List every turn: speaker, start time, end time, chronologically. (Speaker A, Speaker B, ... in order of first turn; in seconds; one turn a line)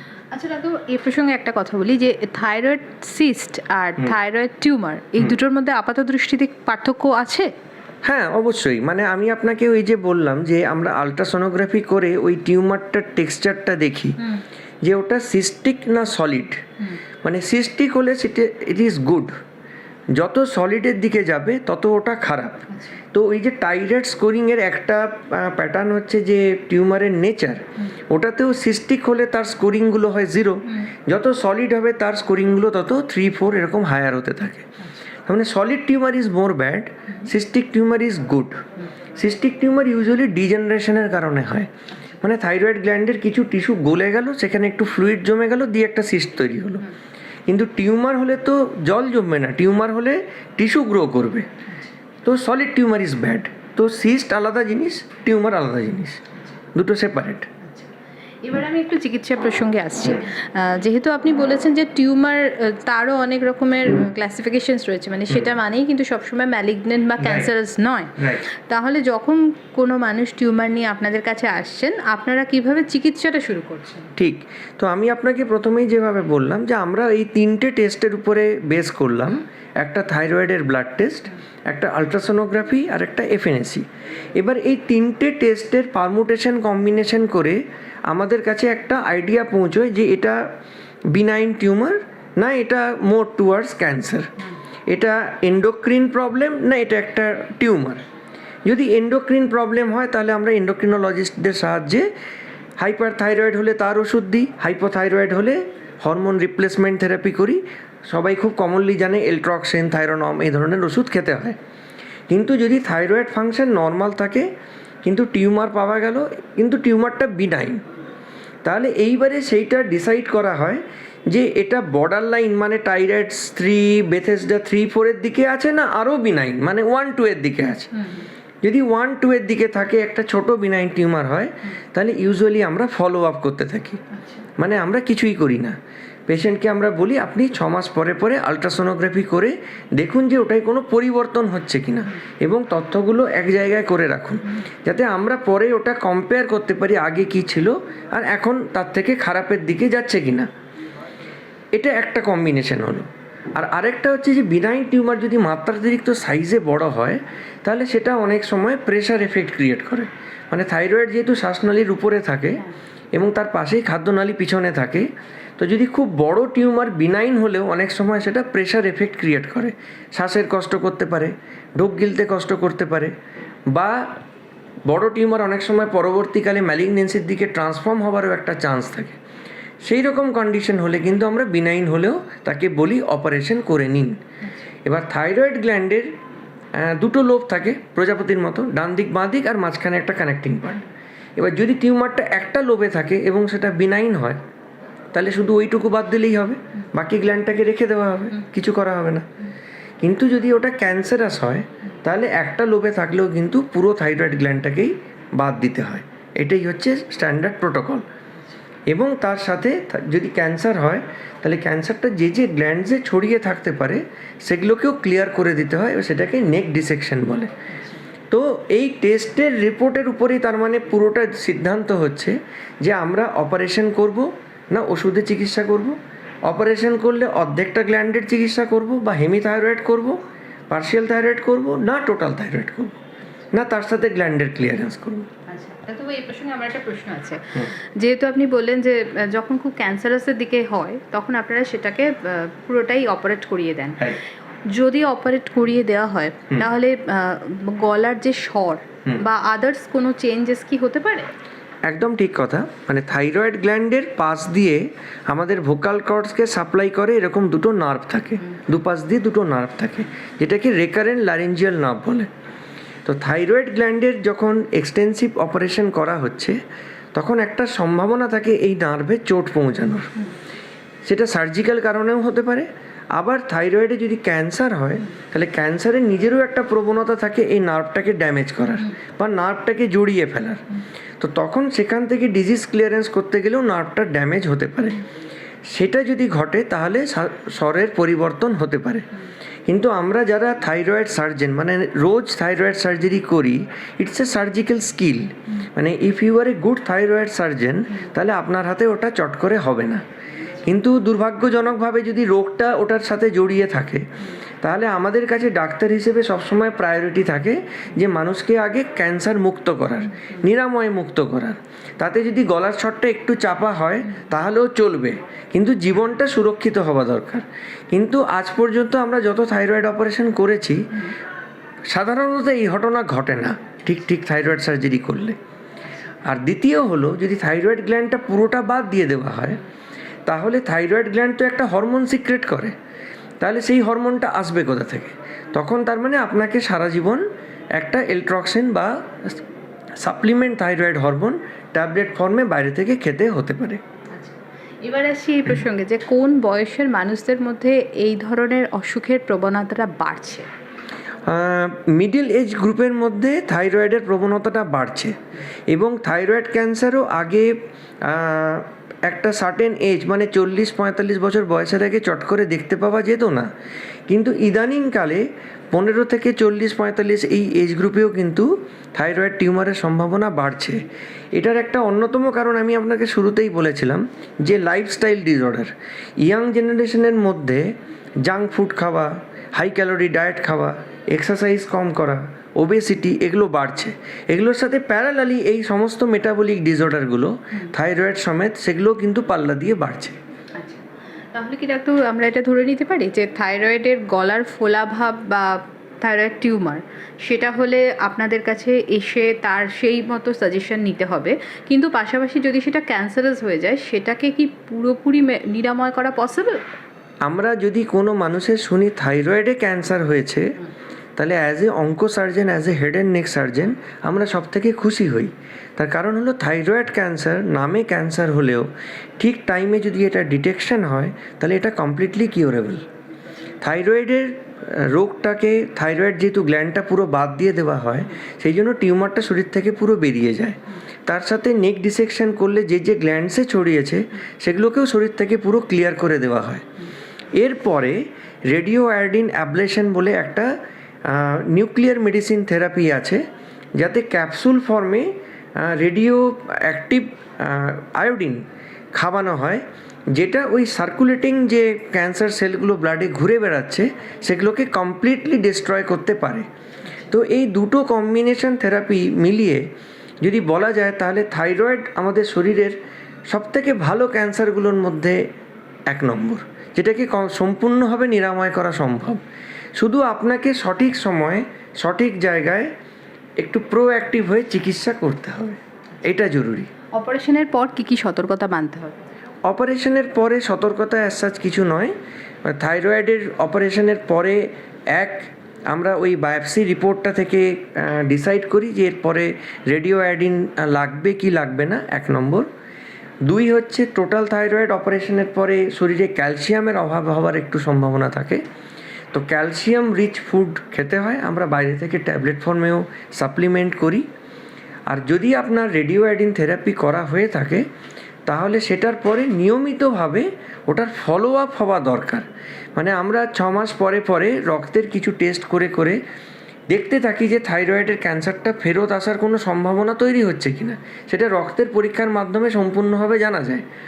Speaker A: 0.3-7.5
Speaker B: 8.0-14.2
Speaker B: 14.8-16.6
Speaker B: 17.2-19.4
Speaker B: 20.1-34.7
Speaker A: 22.7-23.0
Speaker A: 30.7-30.9
Speaker A: 34.8-35.0
Speaker B: 35.2-46.9
Speaker B: 47.5-51.5
Speaker A: 51.7-51.9
Speaker B: 52.2-56.2
Speaker B: 56.7-57.5
Speaker A: 57.6-57.9
Speaker A: 58.4-74.1
Speaker B: 67.2-67.5
Speaker B: 68.2-68.5
Speaker B: 74.2-90.4
Speaker B: 91.1-94.3
Speaker B: 94.9-98.0
Speaker B: 98.7-102.1
Speaker B: 102.8-111.6
Speaker B: 112.3-114.5
Speaker B: 115.0-117.8
Speaker B: 118.6-127.9
Speaker A: 127.9-128.3
Speaker B: 128.6-134.0
Speaker A: 134.1-134.5
Speaker B: 134.6-135.8
Speaker B: 136.3-150.5
Speaker B: 151.7-162.6
Speaker B: 163.1-173.2
Speaker B: 173.7-174.2
Speaker B: 174.9-179.2
Speaker B: 179.8-184.2
Speaker B: 184.8-186.1
Speaker B: 186.7-190.8
Speaker B: 191.4-194.4
Speaker B: 195.1-199.3
Speaker B: 200.0-208.1
Speaker B: 208.9-217.5
Speaker A: 217.7-218.0
Speaker B: 218.3-233.0
Speaker B: 233.5-235.3
Speaker A: 235.5-251.3
Speaker B: 251.9-262.3
Speaker B: 263.1-266.6
Speaker B: 267.1-270.1
Speaker B: 271.1-280.6
Speaker B: 281.2-285.0
Speaker B: 285.7-289.1
Speaker B: 289.7-300.0
Speaker B: 300.6-304.1
Speaker B: 304.6-320.9
Speaker B: 321.9-325.4
Speaker B: 326.2-329.6
Speaker B: 330.2-332.8
Speaker B: 333.4-337.2
Speaker B: 337.8-339.4
Speaker B: 339.9-343.8
Speaker A: 344.1-350.5
Speaker B: 351.2-363.5
Speaker B: 364.1-375.7
Speaker B: 376.2-390.2
Speaker A: 390.6-406.6
Speaker B: 407.2-410.6
Speaker B: 411.2-422.8
Speaker B: 423.6-436.7
Speaker B: 437.4-440.5
Speaker B: 441.0-443.2
Speaker B: 443.8-448.4
Speaker B: 448.9-456.5
Speaker B: 457.1-459.7
Speaker B: 460.2-462.8
Speaker B: 463.3-465.2
Speaker B: 465.9-469.2
Speaker B: 469.8-472.7
Speaker B: 473.4-476.7
Speaker A: 476.9-479.0
Speaker B: 479.5-492.5
Speaker B: 493.2-498.4
Speaker B: 499.1-504.1
Speaker B: 504.9-507.6
Speaker B: 508.2-516.0
Speaker B: 516.7-523.6